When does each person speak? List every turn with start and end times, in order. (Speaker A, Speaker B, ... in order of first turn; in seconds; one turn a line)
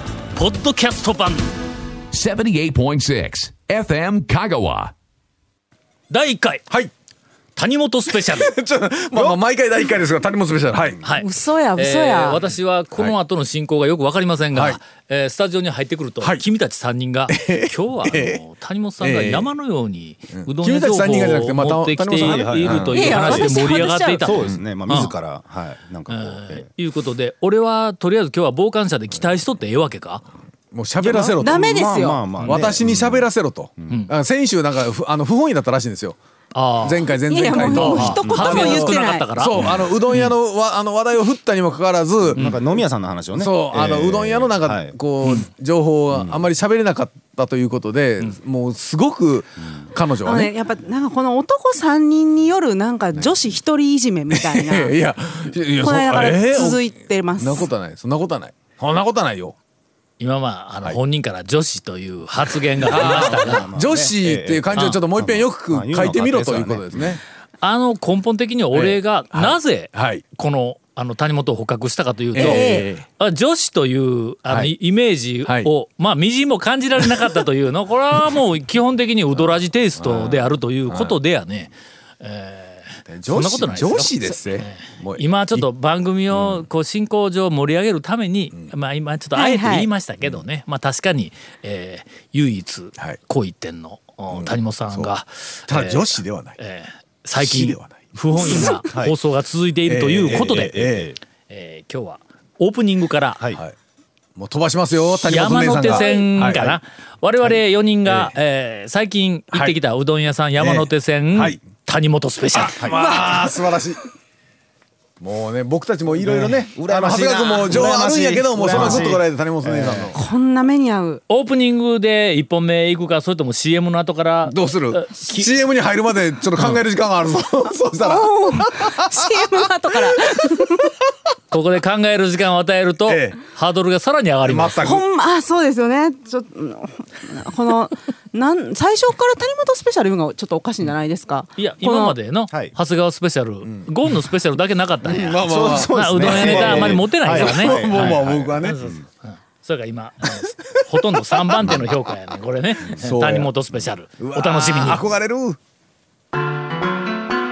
Speaker A: 0.3-1.5
Speaker B: 2.1-4.9
Speaker A: 6.1-6.6
Speaker A: 7.6-8.5
Speaker C: 8.2-11.0
Speaker A: 11.0-25.1
Speaker D: 11.1-12.4
Speaker C: 14.5-14.8
Speaker C: 17.3-18.4
Speaker C: 19.0-19.5
Speaker C: 20.3-23.2
Speaker E: 22.2-23.6
Speaker D: 22.9-24.3
Speaker E: 24.2-26.7
Speaker A: 26.1-30.2
Speaker C: 30.7-31.6
Speaker D: 31.0-32.2
Speaker E: 31.2-33.3
Speaker C: 32.5-36.2
Speaker A: 36.5-40.3
Speaker C: 36.8-42.5
Speaker D: 37.3-39.3
Speaker E: 38.2-38.5
Speaker E: 42.3-44.9
Speaker C: 43.4-50.5
Speaker E: 46.1-46.4
Speaker D: 50.2-54.9
Speaker C: 54.3-56.8
Speaker D: 55.8-57.7
Speaker C: 57.4-59.6
Speaker A: 60.2-63.7
Speaker C: 62.9-67.2
Speaker E: 62.9-67.2
Speaker A: 64.7-65.0
Speaker A: 67.6-100.9
Speaker C: 68.7-70.2
Speaker C: 72.3-73.0
Speaker D: 72.4-72.9
Speaker C: 74.5-74.7
Speaker C: 75.5-75.7
Speaker C: 80.0-81.2
Speaker C: 83.1-85.7
Speaker C: 86.3-86.6
Speaker D: 89.4-89.9
Speaker C: 94.3-95.1
Speaker C: 95.7-96.6
Speaker C: 97.4-98.0
Speaker D: 98.4-98.8
Speaker E: 98.9-99.2
Speaker C: 99.9-101.1
Speaker E: 100.3-101.2
Speaker A: 101.5-103.4
Speaker C: 104.4-106.7
Speaker A: 105.2-112.8
Speaker D: 105.9-106.2
Speaker C: 108.1-108.3
Speaker C: 110.6-111.6
Speaker C: 112.5-114.0
Speaker D: 113.0-113.3
Speaker C: 115.2-120.2
Speaker E: 116.2-120.1
Speaker D: 120.1-121.2
Speaker A: 121.3-125.5
Speaker C: 124.5-129.5
Speaker D: 128.0-130.9
Speaker A: 131.5-134.9
Speaker C: 133.1-133.4
Speaker C: 134.4-135.0
Speaker D: 134.8-142.2
Speaker A: 141.6-155.0
Speaker C: 145.0-148.8
Speaker E: 145.4-149.0
Speaker C: 150.5-150.9
Speaker C: 151.5-151.9
Speaker C: 152.9-153.5
Speaker C: 154.2-155.6